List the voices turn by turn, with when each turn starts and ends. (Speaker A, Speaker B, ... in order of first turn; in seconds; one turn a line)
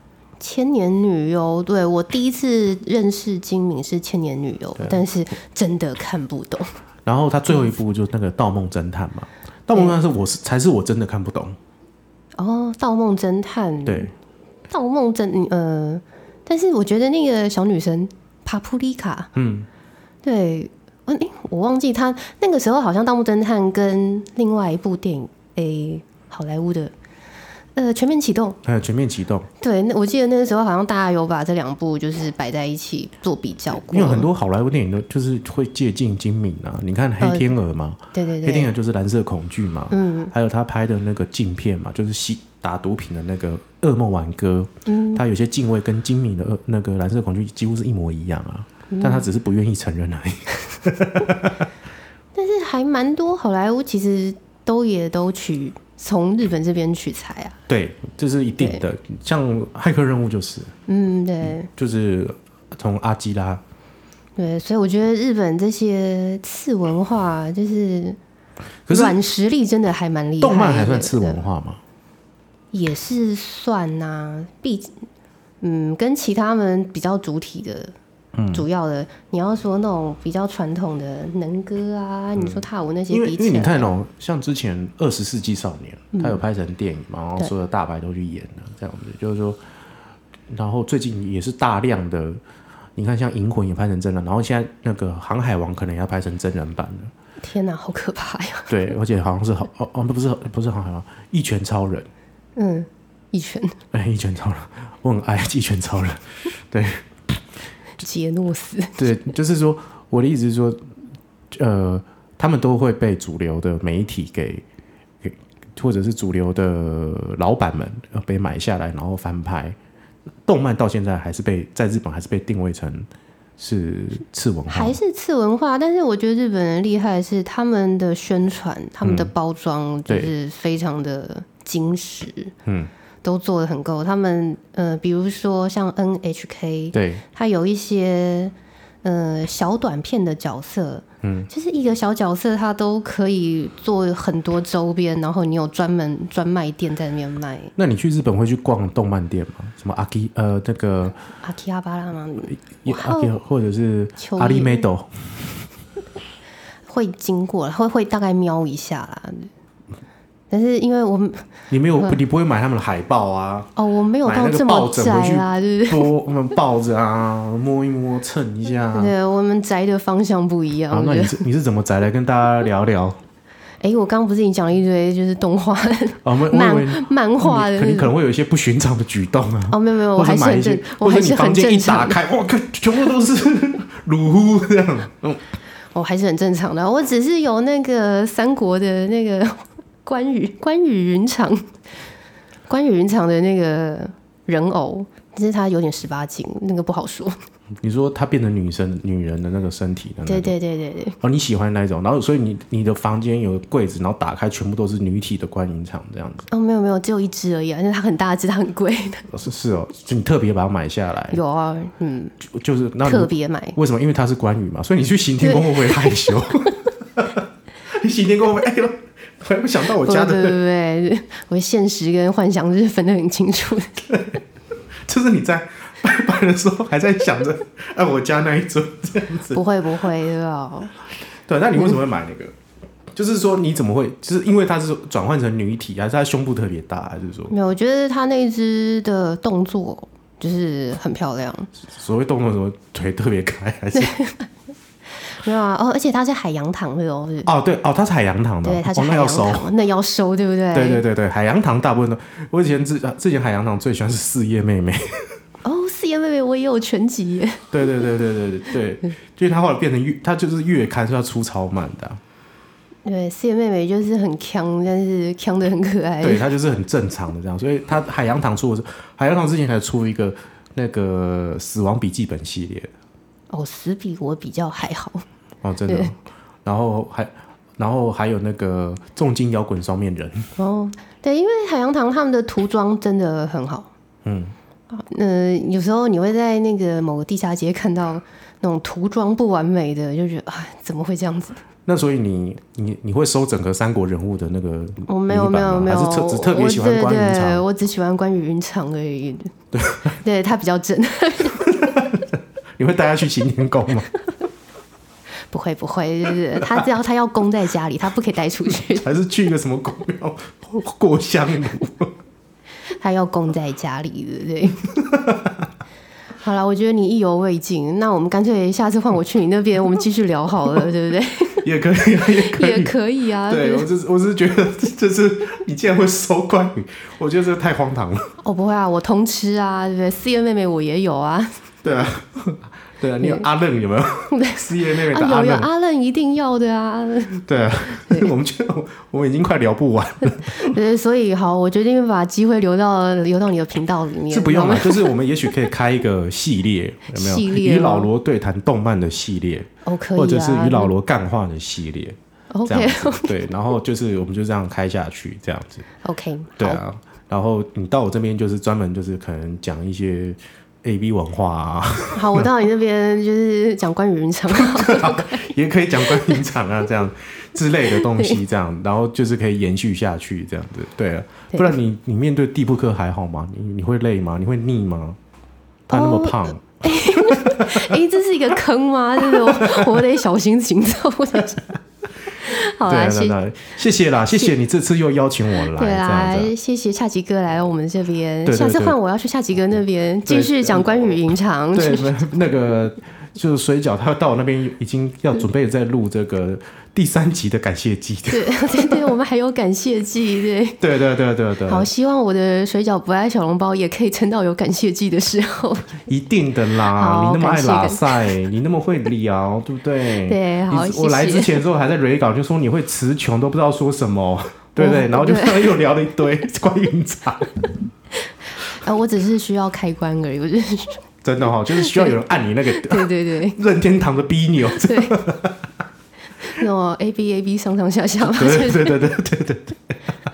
Speaker A: 0.4-6.7
Speaker B: 7.1-11.6
Speaker A: 12.4-14.1
Speaker B: 13.8-14.1
Speaker A: 14.7-19.3
Speaker B: 19.4-19.7
Speaker A: 20.2-26.9
Speaker A: 27.8-28.6
Speaker B: 28.6-29.5
Speaker A: 29.6-34.3
Speaker B: 33.9-51.6
Speaker A: 37.2-37.5
Speaker A: 38.1-38.7
Speaker A: 39.9-40.3
Speaker A: 44.9-45.2
Speaker A: 48.9-49.3
Speaker A: 52.4-57.6
Speaker B: 57.7-60.7
Speaker A: 60.9-61.7
Speaker B: 61.6-63.6
Speaker A: 64.4-68.2
Speaker B: 68.9-69.2
Speaker A: 68.9-71.4
Speaker B: 70.4-71.8
Speaker A: 72.7-75.0
Speaker A: 75.6-77.9
Speaker B: 78.3-78.7
Speaker A: 78.5-83.9
Speaker B: 82.4-89.6
Speaker A: 86.1-86.4
Speaker B: 90.5-92.4
Speaker B: 93.0-97.1
Speaker A: 97.4-98.8
Speaker B: 98.7-102.1
Speaker A: 102.6-103.8
Speaker B: 103.9-107.0
Speaker A: 108.0-109.2
Speaker B: 109.0-110.8
Speaker B: 111.5-114.6
Speaker B: 115.2-119.8
Speaker B: 120.5-125.0
Speaker A: 124.7-132.5
Speaker B: 129.0-129.3
Speaker B: 130.1-130.3
Speaker B: 132.7-132.9
Speaker A: 133.2-147.7
Speaker B: 136.9-137.2
Speaker B: 141.2-141.5
Speaker B: 147.8-151.2
Speaker A: 151.4-153.4
Speaker B: 152.8-155.3
Speaker A: 154.2-154.9
Speaker A: 156.9-159.5
Speaker A: 160.5-162.2
Speaker B: 161.7-163.7
Speaker A: 163.8-166.1
Speaker B: 164.2-169.1
Speaker A: 168.9-171.4
Speaker B: 170.9-173.2
Speaker A: 173.8-178.1
Speaker B: 176.2-185.4
Speaker A: 179.7-182.2
Speaker A: 185.9-191.7
Speaker A: 192.7-197.4
Speaker B: 197.8-200.5
Speaker A: 200.2-201.2
Speaker B: 201.2-206.5
Speaker A: 206.5-209.3
Speaker B: 209.3-211.4
Speaker A: 211.3-212.4
Speaker B: 212.4-220.6
Speaker A: 213.0-213.8
Speaker A: 215.4-216.5
Speaker A: 220.0-224.1
Speaker B: 224.1-224.4
Speaker B: 225.1-229.6
Speaker A: 229.5-230.9
Speaker B: 231.5-232.5
Speaker B: 233.1-237.5
Speaker A: 237.5-241.7
Speaker B: 241.8-244.2
Speaker A: 243.9-244.5
Speaker A: 245.2-247.5
Speaker B: 247.4-249.7
Speaker A: 248.6-251.0
Speaker B: 250.7-255.3
Speaker A: 255.7-257.7
Speaker B: 257.7-262.2
Speaker A: 263.1-266.4
Speaker B: 266.2-272.9
Speaker A: 273.5-275.2
Speaker B: 275.6-280.5
Speaker A: 275.9-276.1
Speaker A: 280.6-283.9
Speaker B: 284.2-284.6
Speaker A: 284.9-291.6
Speaker B: 291.9-297.6
Speaker A: 295.1-299.5
Speaker B: 299.7-300.2
Speaker A: 300.1-301.8
Speaker B: 301.6-304.1
Speaker A: 305.5-309.1
Speaker B: 309.0-312.1
Speaker A: 313.0-314.9
Speaker B: 314.9-315.7
Speaker A: 316.4-321.7
Speaker B: 321.6-322.9
Speaker A: 322.3-323.9
Speaker B: 323.5-328.4
Speaker A: 328.4-331.6
Speaker B: 331.8-335.7
Speaker A: 334.3-337.4
Speaker B: 337.4-340.8
Speaker A: 338.1-338.3
Speaker A: 340.5-345.1
Speaker B: 344.3-355.9
Speaker A: 347.1-348.1
Speaker A: 349.9-350.9
Speaker A: 352.5-353.4
Speaker A: 356.0-356.8
Speaker B: 356.6-362.5
Speaker A: 362.1-365.5
Speaker B: 364.5-375.2
Speaker A: 367.9-368.4
Speaker B: 375.9-377.9
Speaker A: 375.9-381.7
Speaker B: 379.2-380.1
Speaker A: 382.3-383.4
Speaker B: 382.5-386.5
Speaker A: 385.8-392.3
Speaker B: 388.5-389.0
Speaker B: 390.3-391.2
Speaker B: 391.7-399.1
Speaker A: 398.3-400.8
Speaker B: 400.8-401.9
Speaker A: 401.7-406.1
Speaker B: 406.1-417.6
Speaker A: 406.9-408.3
Speaker A: 410.3-411.6
Speaker A: 414.8-415.7
Speaker A: 418.3-421.1
Speaker B: 421.2-425.6
Speaker A: 421.7-422.1
Speaker A: 422.7-423.6
Speaker A: 424.8-425.2
Speaker A: 426.4-429.0
Speaker B: 428.3-430.1